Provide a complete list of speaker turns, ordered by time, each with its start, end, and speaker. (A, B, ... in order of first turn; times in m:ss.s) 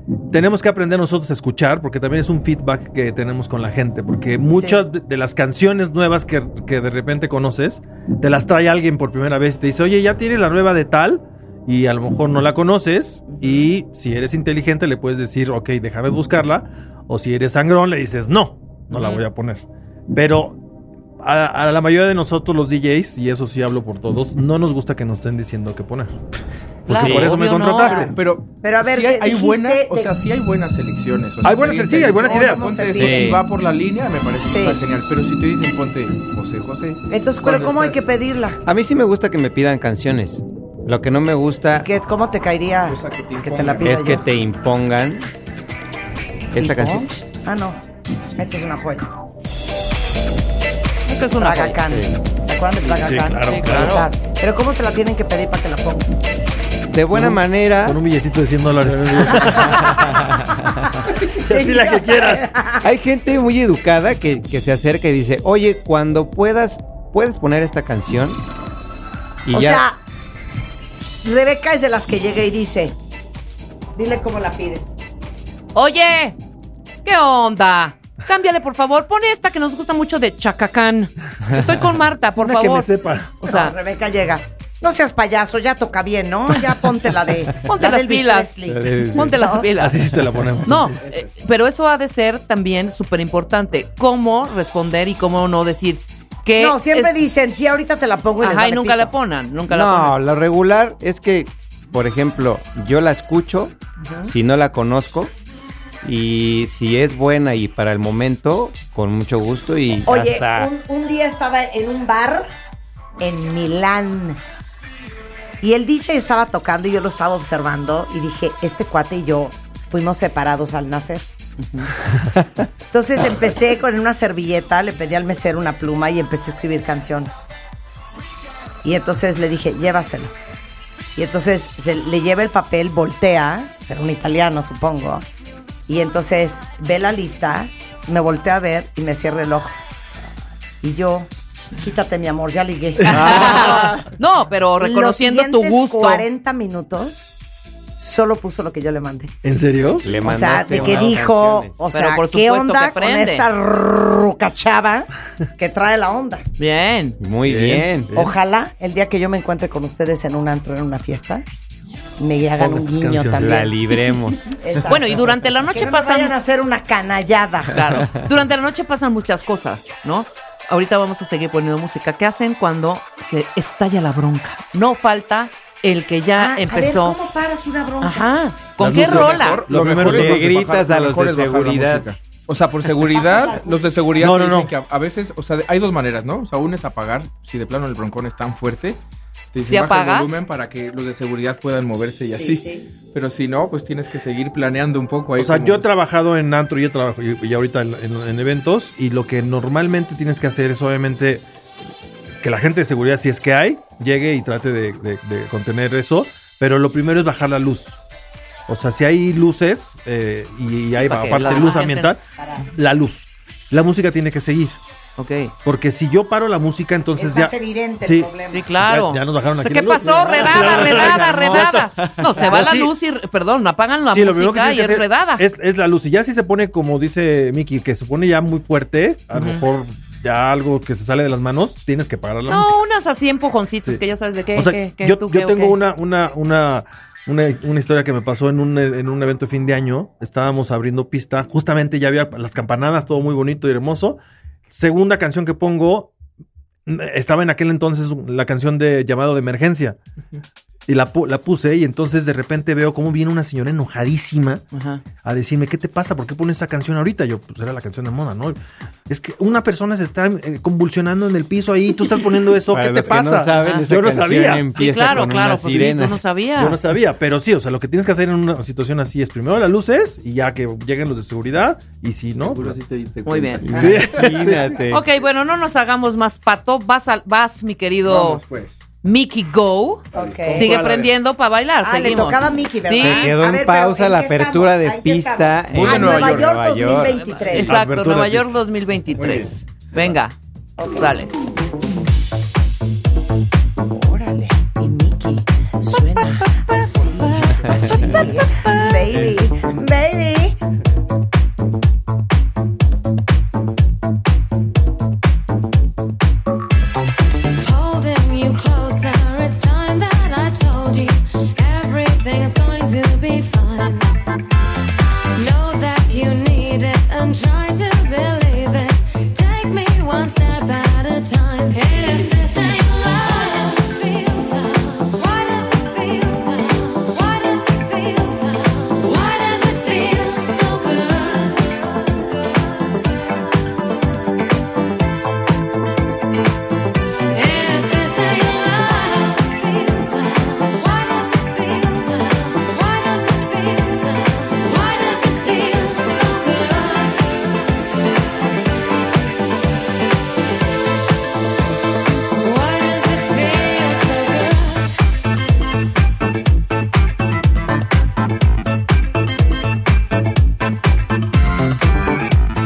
0:00.3-0:20.6 A
0:04.5-0:04.8 B
0:13.3-0:13.7 B
0:18.9-0:19.2 C
0:21.2-0:26.2 A
0:26.9-0:28.1 C
0:26.9-0:28.1 A
0:27.0-0:27.3 D
0:27.8-0:30.1 B
0:28.1-0:38.0 E
0:31.4-0:33.0 A
0:32.1-0:33.4 B
0:33.0-0:33.4 D
0:34.4-0:34.8 B
0:37.1-0:38.6 B
0:38.6-0:41.9 D
0:41.8-0:44.2 B
0:42.9-0:44.2 E
0:43.8-0:45.3 D
0:46.5-0:47.1 D
0:46.5-0:47.8 B
0:48.4-0:49.1 B
0:51.0-0:51.8 C
0:51.4-0:56.5 B
0:51.9-0:52.1 D
0:53.0-0:54.0 A
0:53.4-0:54.0 C
0:56.9-0:58.0 D
0:57.1-1:00.0 A
0:59.3-0:59.9 B
0:59.6-1:01.0 D
1:01.3-1:02.5 A
1:01.4-1:02.9 B
1:02.8-1:08.4 D
1:09.4-1:09.8 D
1:09.5-1:10.0 B
1:11.2-1:12.9 B
1:14.0-1:14.9 B
1:15.7-1:16.4 C
1:17.0-1:23.7 C
1:22.4-1:23.3 A
1:23.4-1:29.7 B
1:27.7-1:28.5 C
1:28.7-1:29.4 D
1:29.1-1:30.0 C
1:29.7-1:31.0 A
1:30.6-1:37.1 C
1:36.6-1:39.1 B
1:38.4-1:40.2 C
1:39.7-1:43.7 D
1:44.0-1:44.3 B
1:44.2-1:45.3 D
1:46.0-1:50.7 D
1:50.0-1:52.5 B
1:53.2-1:54.4 B
1:55.6-2:01.3 B
2:01.6-2:01.9 C
2:02.9-2:07.5 B
2:08.8-2:10.3 B
2:11.2-2:15.2 B
2:15.9-2:19.8 B
2:20.8-2:24.0 B
2:23.0-2:23.7 A
2:23.1-2:26.2 C
2:24.8-2:27.4 B
2:28.0-2:29.4 B
2:29.4-2:31.2 A
2:30.0-2:31.7 D
2:30.2-2:36.4 B
2:31.9-2:33.5 C
2:36.6-2:37.2 C
2:37.2-2:38.1 D
2:37.5-2:38.3 A
2:38.1-2:41.4 B
2:42.2-2:48.0 B
2:42.6-2:43.5 A
2:43.3-2:44.5 D
2:44.8-2:46.4 C
2:47.7-2:57.2 C
2:56.4-2:58.4 B
2:58.0-2:59.6 C
2:58.8-3:00.8 A
2:58.8-3:09.0 E
3:00.0-3:02.0 D
3:03.1-3:04.0 B
3:04.2-3:04.7 A
3:09.5-3:15.9 E
3:09.7-3:10.4 C
3:12.3-3:12.9 B
3:15.4-3:21.4 A
3:22.4-3:28.0 A
3:28.7-3:32.2 A
3:31.0-3:32.1 C
3:31.3-3:31.8 B
3:32.4-3:32.6 B
3:32.7-3:34.8 A
3:35.2-3:35.5 C
3:35.6-3:42.9 A
3:37.2-3:38.6 B
3:38.5-3:45.4 C
3:44.1-3:52.8 A
3:49.3-3:49.6 C
3:52.5-3:55.8 C
3:54.5-4:06.1 A
4:06.8-4:10.0 A
4:10.9-4:14.6 A
4:14.7-4:15.0 C
4:15.2-4:24.6 A
4:22.7-4:26.2 D
4:23.6-4:23.8 C
4:24.7-4:26.8 C
4:26.6-4:32.8 A
4:32.4-4:34.7 E
4:33.2-4:33.7 C
4:33.6-4:35.0 D
4:33.7-4:34.7 A
4:34.9-4:38.4 C
4:38.0-4:38.8 E
4:39.0-4:43.3 C
4:40.1-4:40.4 E
4:40.1-4:40.8 B
4:40.5-4:41.1 A
4:41.8-4:47.8 B
4:43.0-4:47.2 D
4:45.7-4:46.5 E
4:47.1-4:50.4 C
4:47.6-4:48.5 A
4:49.1-4:49.6 E
4:50.8-4:51.2 B
4:51.0-4:51.3 C
4:53.9-5:00.6 B
5:07.6-5:14.1 F
5:15.3-5:33.8 F
5:37.3-5:47.9 F
5:52.3-5:54.9 F